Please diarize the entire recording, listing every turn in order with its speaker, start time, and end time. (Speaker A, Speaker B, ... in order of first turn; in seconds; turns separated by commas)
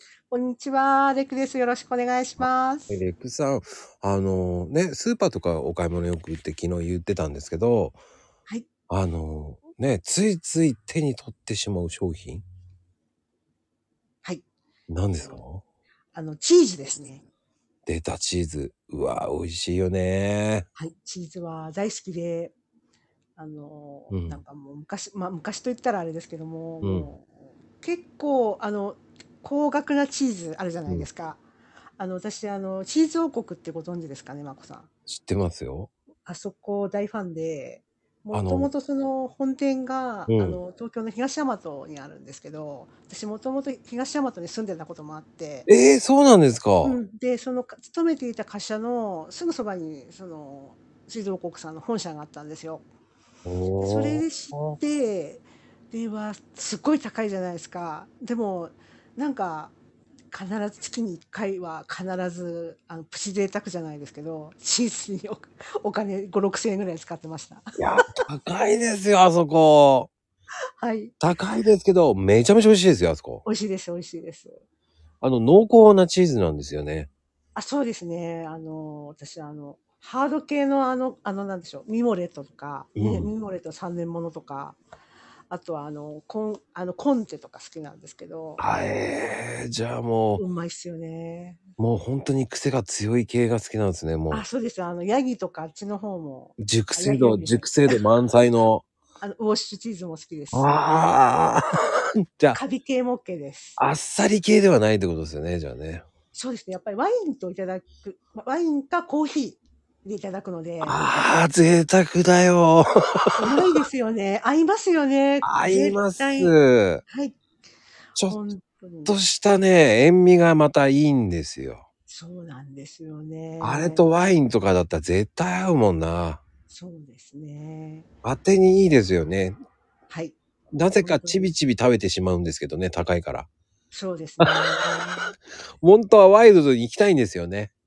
Speaker A: 0.3-3.0, Speaker B: 2.4-8.0, Speaker B: 8.9-12.4, Speaker B: 14.9-15.6, Speaker A: 16.1-17.2, Speaker B: 17.9-20.7, Speaker A: 20.8-22.5, Speaker A: 23.4-31.4, Speaker B: 24.1-24.4, Speaker B: 26.8-27.1, Speaker A: 32.0-34.9, Speaker B: 35.1-35.9, Speaker A: 36.2-45.7, Speaker B: 38.3-38.7, Speaker B: 40.3-40.6, Speaker B: 45.7-47.0, Speaker A: 46.8-52.8, Speaker B: 53.5-54.8, Speaker A: 53.8-59.7, Speaker A: 60.3-67.8, Speaker B: 67.8-70.1, Speaker A: 70.8-71.2, Speaker B: 71.2-73.4, Speaker A: 73.4-74.6, Speaker B: 75.2-77.1, Speaker A: 77.5-84.8, Speaker B: 83.0-83.3, Speaker A: 85.5-88.6, Speaker B: 88.6-90.4, Speaker A: 90.4-91.6, Speaker B: 91.8-94.4, Speaker A: 94.3-98.0, Speaker B: 96.6-98.8, Speaker A: 99.2-100.9, Speaker B: 100.5-102.6, Speaker A: 102.5-103.8, Speaker B: 103.8-106.1, Speaker A: 106.3-111.0, Speaker B: 110.8-113.5, Speaker A: 113.4-116.5, Speaker B: 115.4-117.0, Speaker A: 117.1-117.4, Speaker B: 118.2-118.4, Speaker A: 118.2-119.2, Speaker B: 119.1-121.8, Speaker A: 122.1-124.1, Speaker B: 123.6-126.4, Speaker A: 126.7-128.1, Speaker B: 128.2-129.6, Speaker A: 130.1-130.4, Speaker B: 130.7-133.5, Speaker A: 131.0-131.5, Speaker A: 133.9-135.3, Speaker B: 135.8-137.7